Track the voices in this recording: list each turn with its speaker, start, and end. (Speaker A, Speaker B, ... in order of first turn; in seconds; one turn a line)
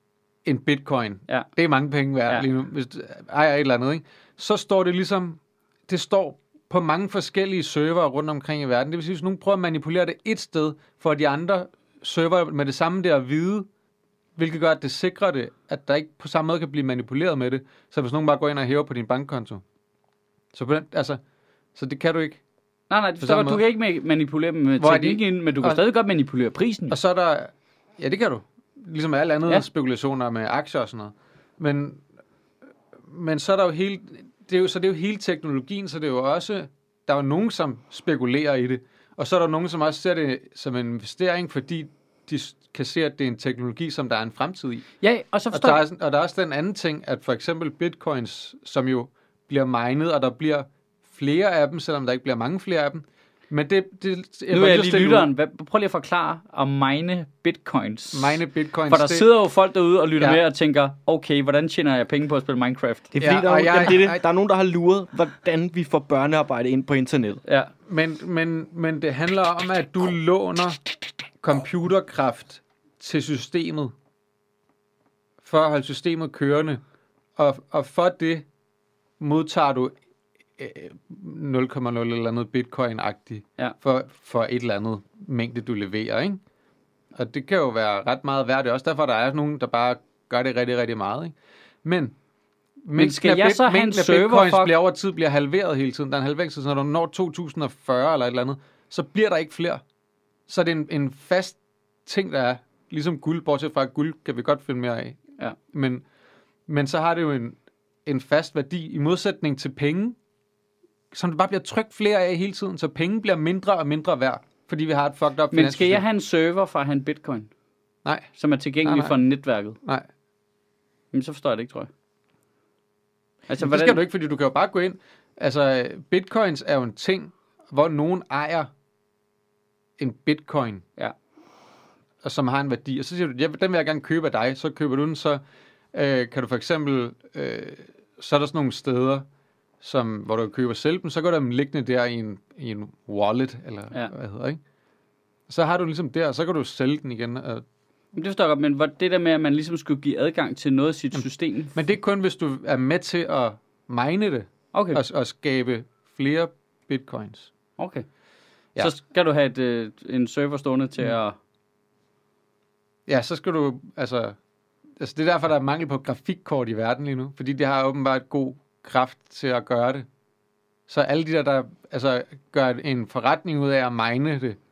Speaker A: 0.5-13.7
Speaker A: 14.4-19.6
Speaker A: 20.5-21.2
Speaker A: 21.8-22.4
Speaker B: 22.9-27.0
Speaker A: 23.2-23.6
Speaker A: 24.8-25.8
Speaker A: 26.9-32.0
Speaker A: 33.1-44.9
Speaker B: 45.0-45.8
Speaker A: 45.5-55.3
Speaker B: 54.5-63.1
Speaker A: 58.1-59.3
Speaker C: 63.1-67.4
Speaker A: 63.2-64.2
Speaker B: 67.5-67.7
Speaker A: 67.9-70.8
Speaker A: 71.4-73.9
Speaker A: 75.4-76.8
Speaker A: 77.4-78.5
Speaker A: 79.2-79.9
Speaker A: 80.6-86.4
Speaker A: 87.2-92.2
Speaker A: 92.9-99.8
Speaker B: 93.0-94.7
Speaker A: 100.5-105.2
Speaker A: 105.7-106.0
Speaker A: 106.7-110.2
Speaker A: 111.1-116.0
Speaker B: 115.5-117.5
Speaker B: 118.4-119.8
Speaker A: 118.8-119.2
Speaker B: 121.1-121.9
Speaker B: 123.5-124.0
Speaker A: 123.6-128.7
Speaker A: 130.0-130.8
Speaker A: 132.2-135.4
Speaker A: 135.9-139.3
Speaker A: 139.8-144.6
Speaker A: 145.5-147.6
Speaker B: 148.1-151.8
Speaker A: 151.8-157.5
Speaker B: 154.7-155.0
Speaker B: 157.8-158.1
Speaker B: 158.8-161.4
Speaker A: 163.1-164.4
Speaker A: 165.0-170.1
Speaker A: 170.9-174.6